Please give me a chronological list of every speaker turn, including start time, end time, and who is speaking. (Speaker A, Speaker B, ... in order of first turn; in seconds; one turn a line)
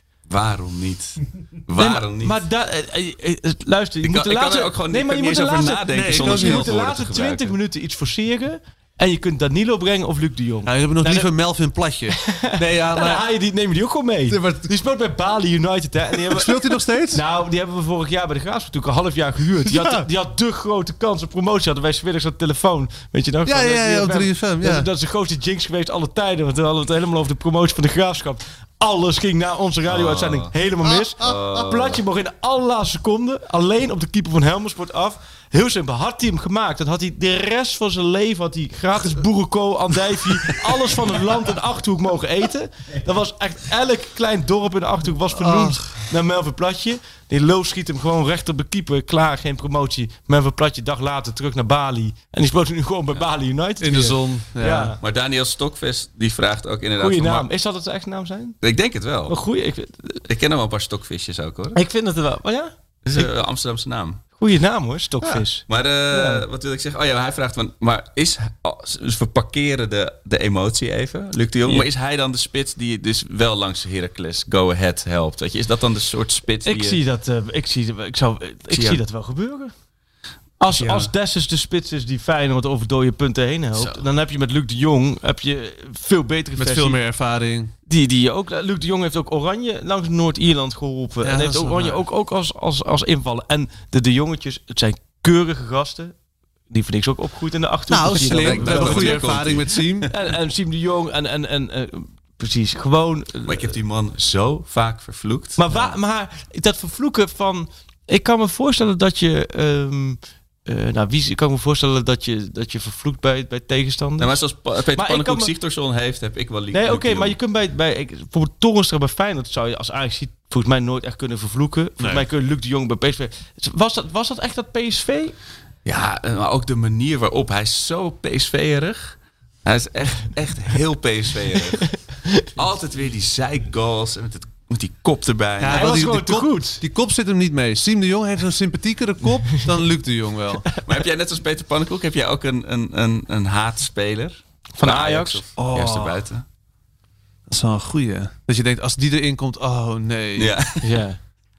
Speaker A: 0.3-2.4
Speaker B: 1.8-11.3
Speaker A: 4.0-7.5
Speaker C: 5.9-6.7
Speaker C: 10.7-13.2
Speaker B: 12.2-55.0
Speaker C: 14.3-14.7
Speaker C: 16.1-17.2
Speaker C: 19.6-20.1
Speaker C: 23.4-24.9
Speaker A: 29.9-30.5
Speaker A: 31.2-32.0
Speaker C: 45.3-46.0
Speaker C: 53.8-55.0
Speaker A: 55.0-57.5
Speaker B: 57.0-58.6
Speaker A: 58.6-59.4
Speaker B: 59.3-60.2
Speaker A: 60.3-61.8
Speaker B: 61.7-63.3
Speaker A: 63.0-64.2
Speaker B: 64.4-66.4
Speaker A: 65.7-77.0
Speaker B: 76.6-79.7
Speaker A: 78.7-79.0
Speaker B: 80.6-87.0
Speaker C: 80.8-81.1
Speaker A: 83.7-84.0
Speaker C: 86.6-87.7
Speaker B: 87.9-96.2
Speaker C: 91.2-92.0
Speaker B: 96.7-99.4
Speaker C: 97.9-100.1
Speaker A: 98.1-100.1
Speaker B: 100.1-103.7
Speaker A: 103.5-105.6
Speaker B: 105.5-114.4
Speaker A: 114.2-117.4
Speaker B: 114.9-115.5
Speaker B: 116.7-125.3
Speaker C: 122.0-122.2
Speaker A: 125.8-131.9
Speaker B: 131.8-132.4
Speaker A: 132.5-135.9
Speaker C: 135.6-140.7
Speaker B: 135.7-136.8
Speaker A: 140.8-146.4
Speaker B: 144.8-145.4
Speaker C: 145.6-146.2
Speaker C: 147.5-150.6
Speaker A: 150.4-150.8
Speaker B: 150.8-151.2